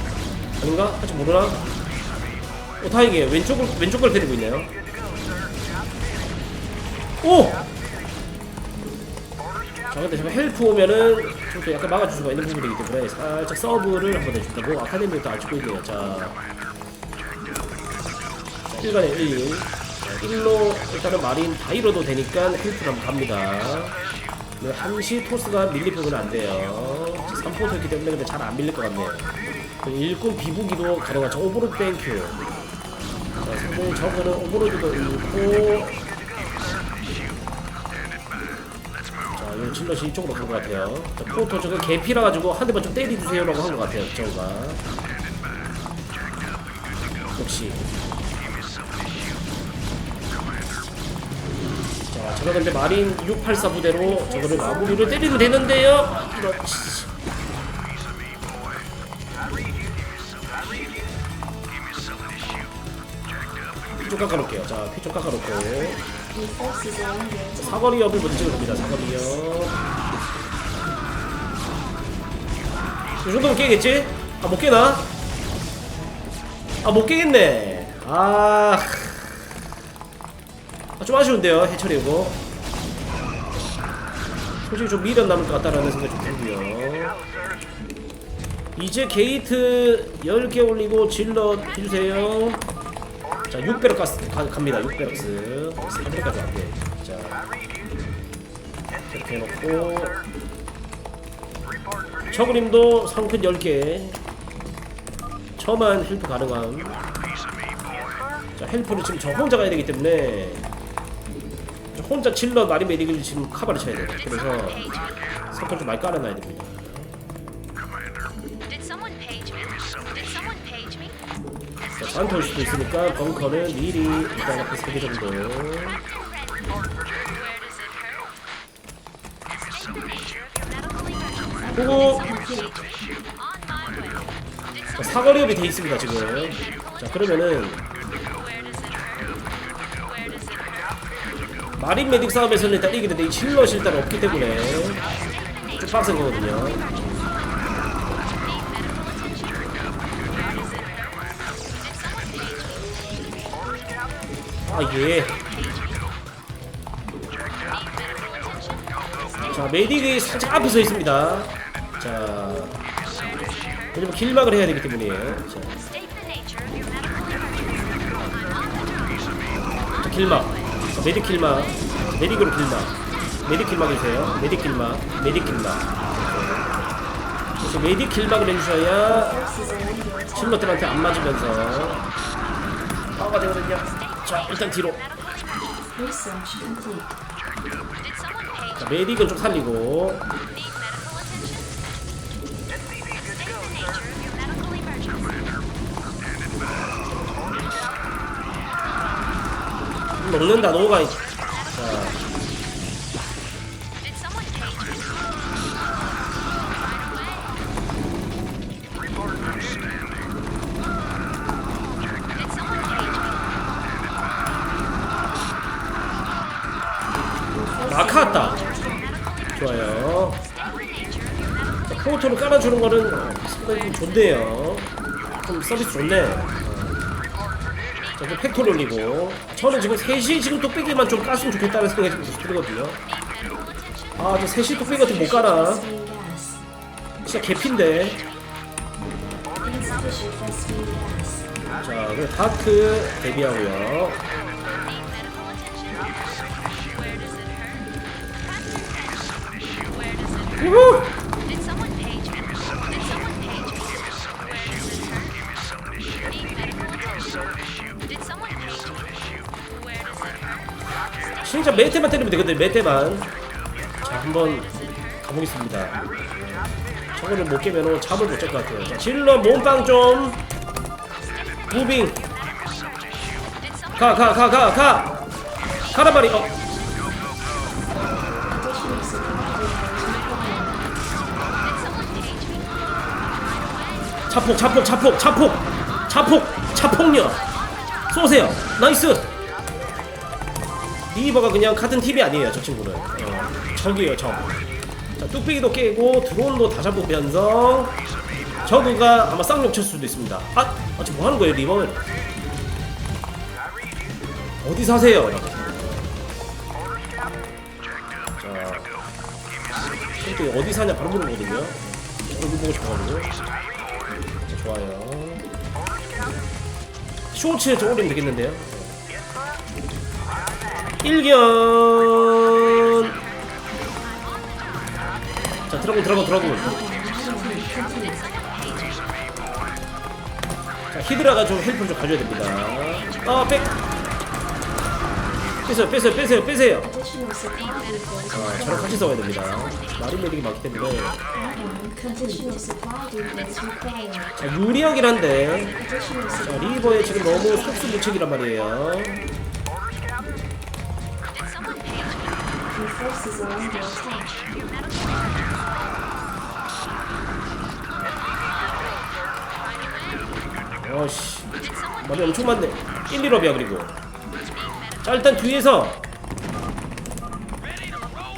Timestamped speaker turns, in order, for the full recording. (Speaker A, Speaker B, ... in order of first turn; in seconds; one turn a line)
Speaker A: 0.6-1.6
Speaker A: 2.8-4.7
Speaker A: 7.2-7.7
Speaker A: 9.9-16.4
Speaker A: 18.7-23.9
Speaker A: 24.6-29.3
Speaker A: 29.8-32.4
Speaker A: 33.4-36.0
Speaker A: 39.4-44.8
Speaker A: 47.4-47.9
Speaker A: 52.1-57.1
Speaker B: 54.0-55.7
Speaker A: 64.0-66.0
Speaker B: 66.3-69.4
Speaker A: 67.6-69.8
Speaker A: 73.2-75.1
Speaker A: 76.8-79.4
Speaker A: 81.0-82.4
Speaker A: 84.7-87.2
Speaker A: 88.8-92.6
Speaker A: 93.5-97.4
Speaker A: 99.1-100.2
Speaker A: 102.3-104.2
Speaker A: 105.6-107.0
Speaker A: 108.6-110.7
Speaker A: 111.9-117.1
Speaker A: 122.0-126.0
Speaker B: 131.6-132.8
Speaker A: 131.7-132.2
Speaker A: 135.0-137.8
Speaker A: 141.8-145.0
Speaker A: 145.8-147.2
Speaker A: 154.7-155.4
Speaker A: 159.5-162.8
Speaker A: 163.9-165.8
Speaker A: 170.0-172.9
Speaker A: 173.4-176.7
Speaker A: 177.6-179.4
Speaker B: 179.1-180.9
Speaker A: 180.3-182.0
Speaker A: 183.2-185.0
Speaker B: 185.9-187.1
Speaker A: 188.8-190.2
Speaker A: 200.2-202.2
Speaker B: 217.5-219.1
Speaker A: 217.9-218.6
Speaker A: 219.6-220.4
Speaker A: 221.9-224.9
Speaker A: 225.4-227.0
Speaker A: 228.2-233.0
Speaker A: 234.2-235.8
Speaker B: 234.8-236.6
Speaker A: 237.2-238.2
Speaker B: 239.6-241.5
Speaker A: 241.8-244.2
Speaker A: 250.6-251.1
Speaker A: 261.4-263.3
Speaker A: 264.0-266.0
Speaker A: 267.1-270.4
Speaker A: 271.7-272.2
Speaker A: 273.9-275.2
Speaker A: 275.9-276.6
Speaker B: 278.4-280.8
Speaker A: 284.3-287.4
Speaker A: 288.1-289.3
Speaker A: 291.1-294.5
Speaker A: 295.2-298.0
Speaker A: 298.6-302.0
Speaker A: 304.6-306.1
Speaker A: 308.4-308.9
Speaker A: 310.2-313.3
Speaker A: 314.5-315.4
Speaker A: 317.3-319.0
Speaker A: 321.0-323.2
Speaker A: 325.7-326.8
Speaker B: 326.3-328.3
Speaker A: 330.9-333.8
Speaker A: 335.6-336.9
Speaker B: 336.8-339.0
Speaker A: 338.3-341.2
Speaker B: 341.3-344.3
Speaker A: 344.4-345.8
Speaker B: 345.8-348.0
Speaker A: 346.4-349.2
Speaker B: 352.7-354.4
Speaker A: 360.8-363.9
Speaker A: 365.0-366.0